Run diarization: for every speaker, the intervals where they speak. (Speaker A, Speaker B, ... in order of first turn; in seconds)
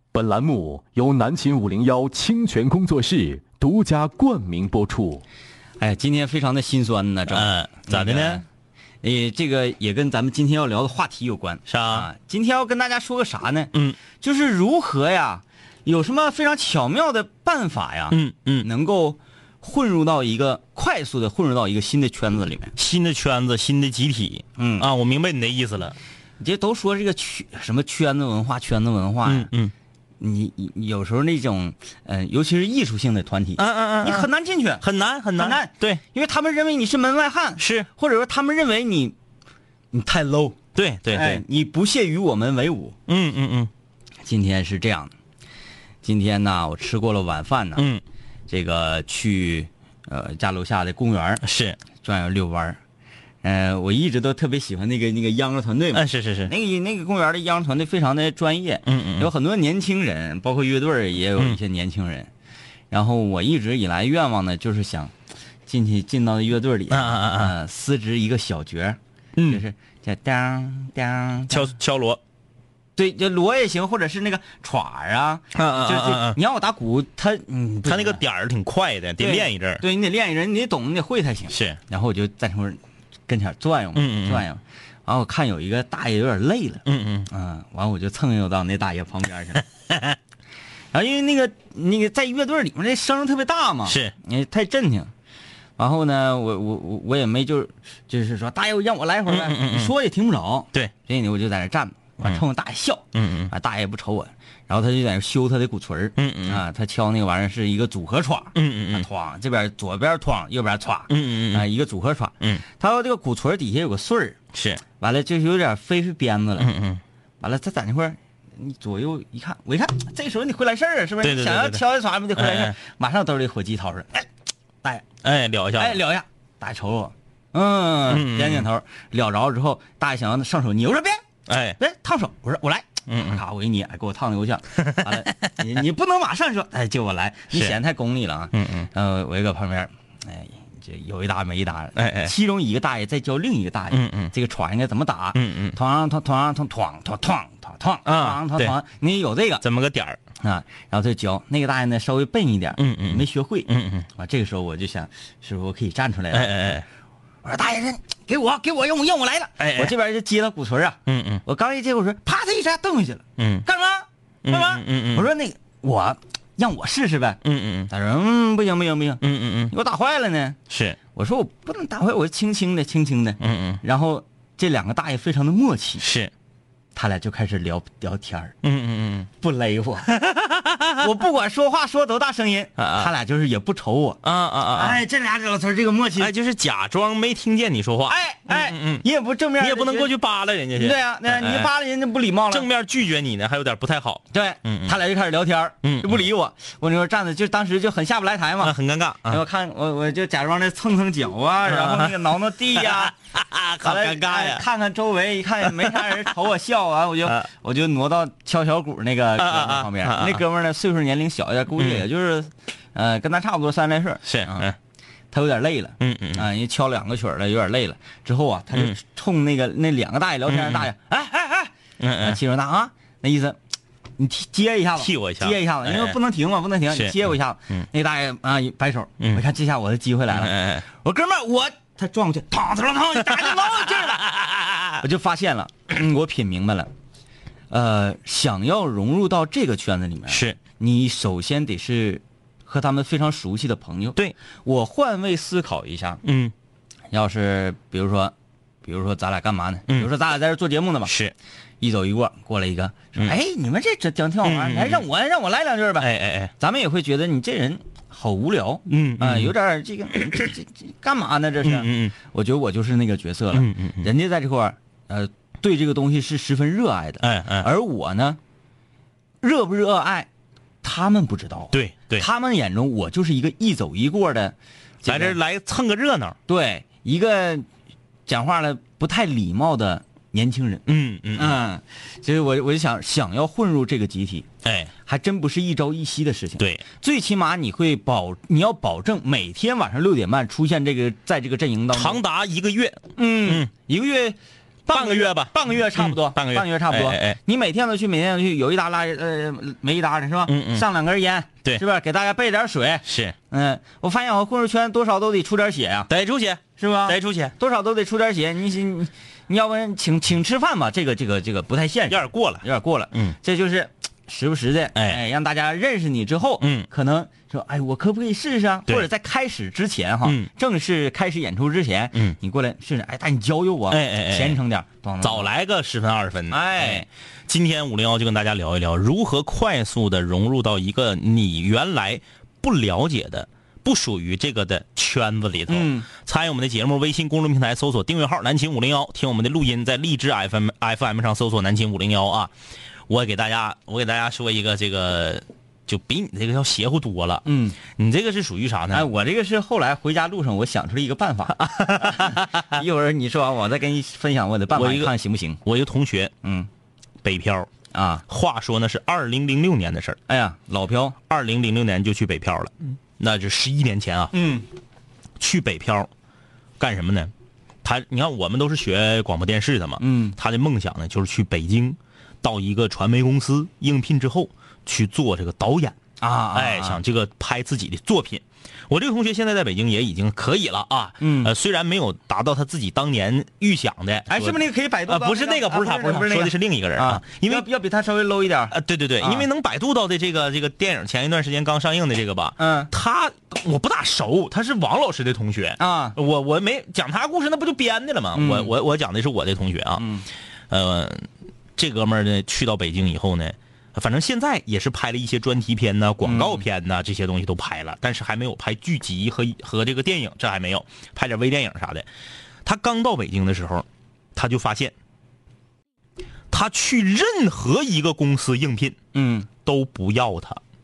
Speaker A: 0.1-5.2
Speaker B: 5.8-8.4, 9.0-22.7, 24.6-24.9, 26.4-29.5, 30.2-34.8, 35.4-39.1, 39.9-40.6, 41.1-43.0, 44.2-45.1, 46.0-47.9, 48.5-51.4, 52.0-52.8, 53.4-62.3, 62.9-65.1, 65.7-71.7, 73.0-78.2, 79.2-89.6, 90.9-95.1, 95.8-114.4, 115.0-116.7, 117.4-124.3, 125.8-131.2, 131.8-149.6, 150.4-156.8, 157.4-170.6, 171.1-176.0, 176.9-178.5, 179.4-180.1, 181.0-184.2, 184.7-186.3, 188.1-190.1, 190.7-192.7, 194.3-203.1, 203.8-214.7, 215.3-223.6, 224.2-234.3, 235.0-236.9, 237.7-246.2, 247.1-248.3, 248.8-251.1, 251.8-268.4, 269.4-270.3, 270.8-275.4, 276.5-277.6, 278.3-284.5, 285.1-292.2, 293.2-306.1, 306.8-325.5, 326.5-327.1, 335.7-336.1, 347.4-347.8, 348.9-355.6, 356.4-356.7, 357.9-358.2, 360.3-361.1, 364.3-364.6, 370.0-370.4, 376.2-377.0, 381.2-381.5, 384.3-389.5, 392.6-392.9, 395.8-396.2, 398.3-398.7, 400.0-400.3, 406.2-406.6, 419.1-419.5
Speaker C: 7.3-8.4, 11.7-12.1, 13.7-14.0, 18.1-18.7, 22.8-25.9, 29.2-29.7, 33.6-34.3, 34.8-36.0, 37.6-37.9, 40.7-41.4, 43.1-43.7, 47.8-48.0, 51.4-51.8, 55.9-56.5, 58.9-59.3, 66.9-67.5, 69.3-69.6, 71.5-72.2, 75.5-76.4, 77.8-79.8, 81.5-81.8, 83.9-84.5, 86.8-87.3, 89.9-90.2, 93.8-94.1, 99.2-99.9, 103.1-103.5, 106.2-106.6, 108.5-109.0, 111.1-111.7, 114.5-114.8, 116.6-117.0, 121.2-122.7, 125.2-126.0, 128.1-128.7, 131.5-131.8, 133.1-133.4, 134.8-135.3, 137.5-137.8, 138.5-138.9, 141.9-142.3, 143.9-144.3, 145.3-145.8, 148.1-148.8, 149.6-150.2, 152.8-154.1, 156.3-156.8, 159.6-159.9, 161.1-161.4, 163.4-163.7, 164.4-165.3, 167.4-167.9, 169.2-169.7, 170.7-171.0, 173.4-173.8, 176.0-176.3, 178.6-179.3, 180.1-181.1, 182.8-183.1, 184.2-185.0, 186.2-189.1, 189.6-191.7, 192.5-195.0, 195.8-196.3, 198.6-199.4, 201.7-204.6, 205.6-206.3, 209.4-210.4, 211.8-212.0, 214.2-214.8, 216.0-216.5, 218.7-219.0, 220.5-220.9, 222.0-222.4, 225.0-226.2, 226.9-227.9, 230.3-230.8, 233.2-235.0, 240.3-240.6, 246.2-246.5, 251.0-251.3, 254.4-255.1, 256.0-256.5, 258.9-259.5, 260.1-260.4, 261.6-262.1, 263.5-264.1, 267.2-267.7, 271.7-272.3, 275.1-276.4, 280.9-281.6, 284.6-284.9, 286.6-286.8, 291.9-293.7, 294.9-297.4, 300.4-300.9, 303.0-303.4, 306.1-307.5, 312.1-313.4, 314.9-315.2, 316.6-316.9, 320.2-320.5, 323.9-324.6, 325.2-342.5, 343.1-349.1, 351.6-352.8, 354.7-355.1, 355.6-356.3, 357.2-357.7, 358.3-360.2, 361.3-364.3, 365.4-366.1, 366.8-367.3, 367.8-376.0, 376.5-387.7, 388.7-400.1, 400.7-412.1, 412.6-414.9, 416.5-419.0, 419.6-420.6